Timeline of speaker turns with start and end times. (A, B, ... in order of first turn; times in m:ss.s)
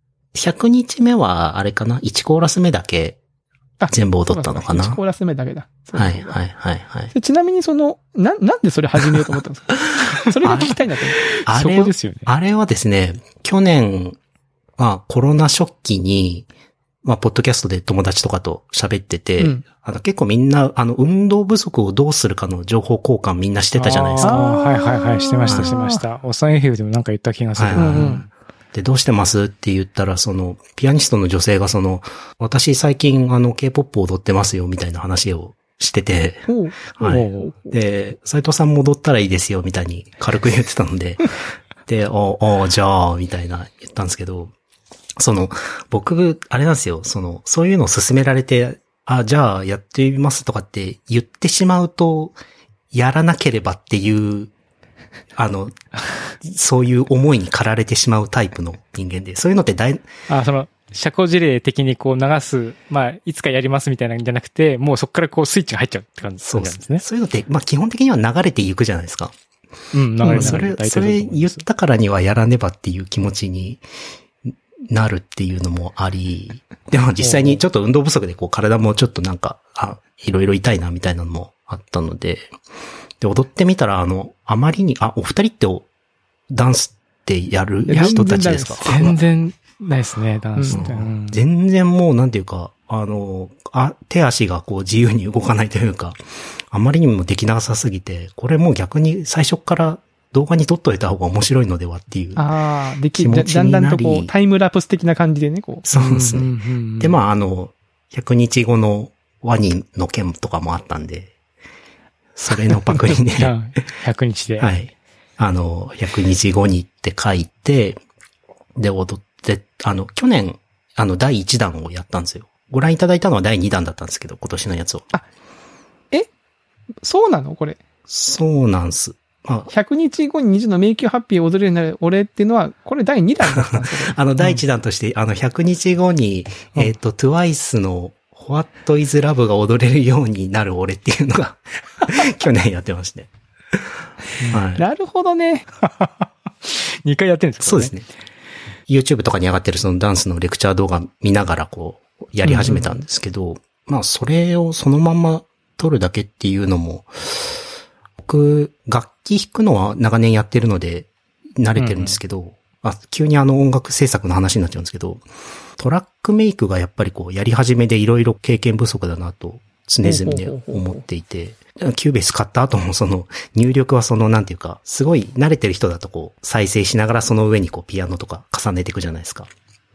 0:00.3-0:03.2 A
0:03.8-0:06.4 B
0:03.9-0:05.0 A
0:05.9-0:07.1 A
0:07.1-0:11.2 B
0:10.4-0:10.8 A
0:11.3-0:12.3 C
0:11.4-0:14.2 A
0:14.8-0:16.5 A
0:17.0-0:24.4 A
0:19.4-0:19.6 B
0:23.8-0:28.3 C
0:24.2-0:26.0 B
0:25.5-0:25.7 A
0:27.6-0:28.2 A
0:27.8-0:28.2 B
0:28.7-0:41.3 A
0:36.5-0:37.8 B
0:37.0-0:37.5 C
0:41.8-0:44.5 A
0:45.2-0:52.4 A
0:52.9-0:54.5 A
0:55.4-0:55.7 A
0:56.4-1:00.0 A
1:00.3-1:07.0 C
1:06.4-1:09.3 A
1:09.9-1:11.6 C
1:10.2-1:13.8 A
1:10.2-1:10.6 B
1:14.5-1:22.5 A
1:17.2-1:17.6 C
1:23.2-1:25.9 A
1:26.5-1:29.2 A
1:27.9-1:29.0 B
1:28.8-1:31.4 C
1:30.6-1:30.8 B
1:30.7-1:36.2 A
1:36.7-1:42.4 A
1:42.4-1:45.8 B
1:43.1-1:44.3 A
1:45.8-1:51.3 A
1:45.9-1:47.2 C
1:52.3-1:53.5 A
1:53.3-1:54.7 C
1:54.6-1:58.0 A
1:58.8-2:05.0 A
2:07.0-2:07.8 B
2:08.1-2:09.7 A
2:09.7-2:14.2 B
2:13.4-2:23.9 A
2:24.5-2:24.8 A
2:24.8-2:25.6 B
2:25.8-2:27.9 C
2:27.6-2:28.0 A
2:28.9-2:37.6 A
2:32.4-2:32.9 C
2:38.2-2:45.2 A
2:41.8-2:42.2 C
2:45.8-2:59.5 A
2:50.0-2:51.0 B